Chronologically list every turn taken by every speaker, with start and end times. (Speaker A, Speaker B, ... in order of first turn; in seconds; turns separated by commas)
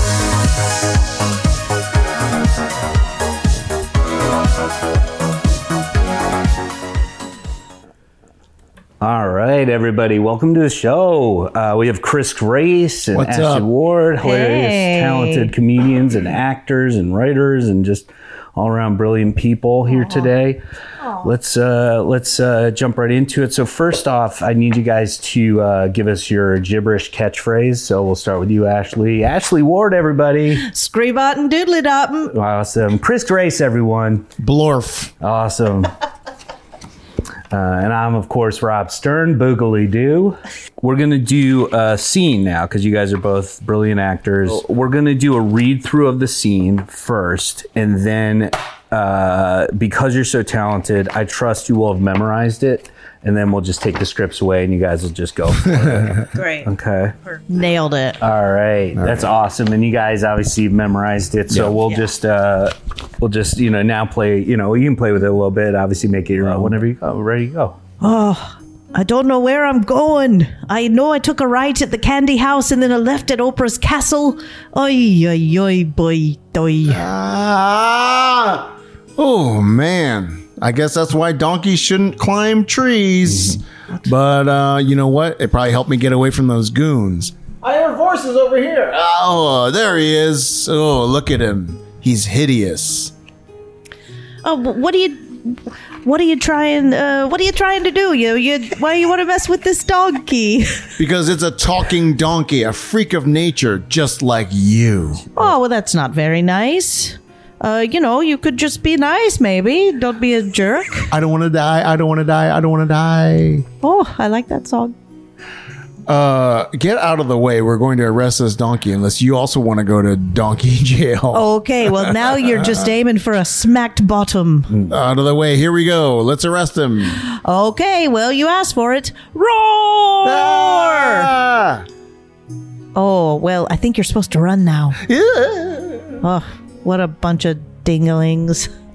Speaker A: 9.0-20.6, Speaker B: 13.1-13.7, Speaker C: 14.2-15.5, Speaker C: 19.9-20.3, Speaker A: 21.2-30.7, Speaker C: 30.6-32.3, Speaker A: 32.3-34.3, Speaker B: 34.4-35.1, Speaker A: 35.2-35.9, Speaker A: 37.5-57.1, Speaker B: 55.5-56.3, Speaker C: 56.3-56.7, Speaker C: 57.2-58.2, Speaker A: 58.2-67.8, Speaker B: 58.9-59.3, Speaker B: 61.5-61.8, Speaker B: 66.4-66.8, Speaker C: 68.0-77.1, Speaker B: 76.9-93.1, Speaker A: 83.3-83.6, Speaker C: 94.4-101.0, Speaker B: 101.0-105.3, Speaker C: 105.4-111.1, Speaker B: 111.1-113.7, Speaker C: 113.8-114.9, Speaker B: 116.1-122.9, Speaker C: 121.3-124.7, Speaker A: 124.7-125.0, Speaker B: 124.9-127.2, Speaker C: 127.1-131.3, Speaker B: 130.2-131.8, Speaker C: 132.9-135.0, Speaker B: 135.0-136.2, Speaker C: 136.2-138.7